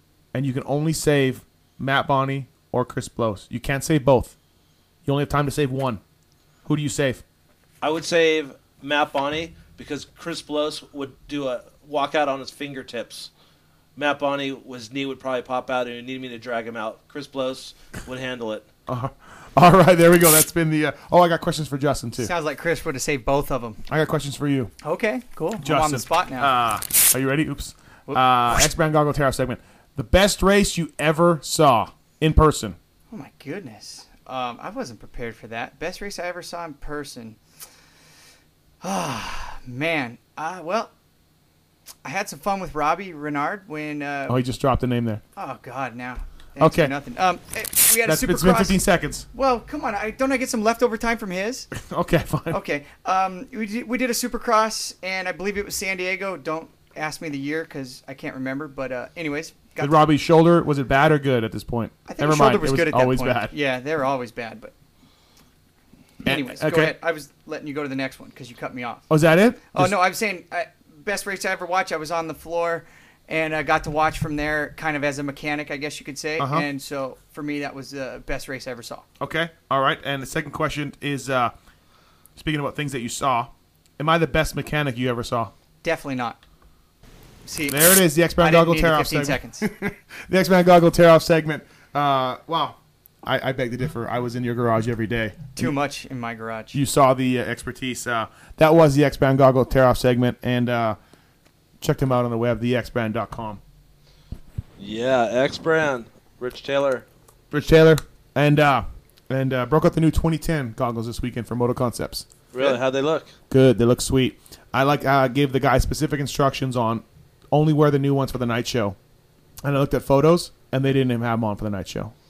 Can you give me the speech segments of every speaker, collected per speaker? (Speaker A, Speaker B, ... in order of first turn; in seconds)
Speaker A: 0.3-4.4, 5.0-6.0, 6.7-7.2, 18.9-22.3, 23.9-24.7, 25.6-32.8, 44.3-45.2, 46.6-46.9, 48.0-49.3, 51.7-52.6, 59.8-63.5, 66.2-67.0, 69.1-70.0, 76.4-76.7, 79.2-81.5, 82.4-85.5, 87.7-95.7, 96.7-101.0, 101.8-103.6, 107.5-112.3, 113.5-119.0, 119.6-122.1
Speaker B: 7.8-13.3, 14.0-18.7, 104.8-107.0, 112.5-113.3
Speaker C: 22.2-23.8, 24.8-26.5, 33.1-37.4, 38.8-40.9, 42.0-44.4, 45.4-48.8, 49.3-51.7, 52.5-60.0, 62.1-64.7, 66.2-69.1, 69.7-79.1, 85.8-86.4, 87.5-89.7, 95.6-96.8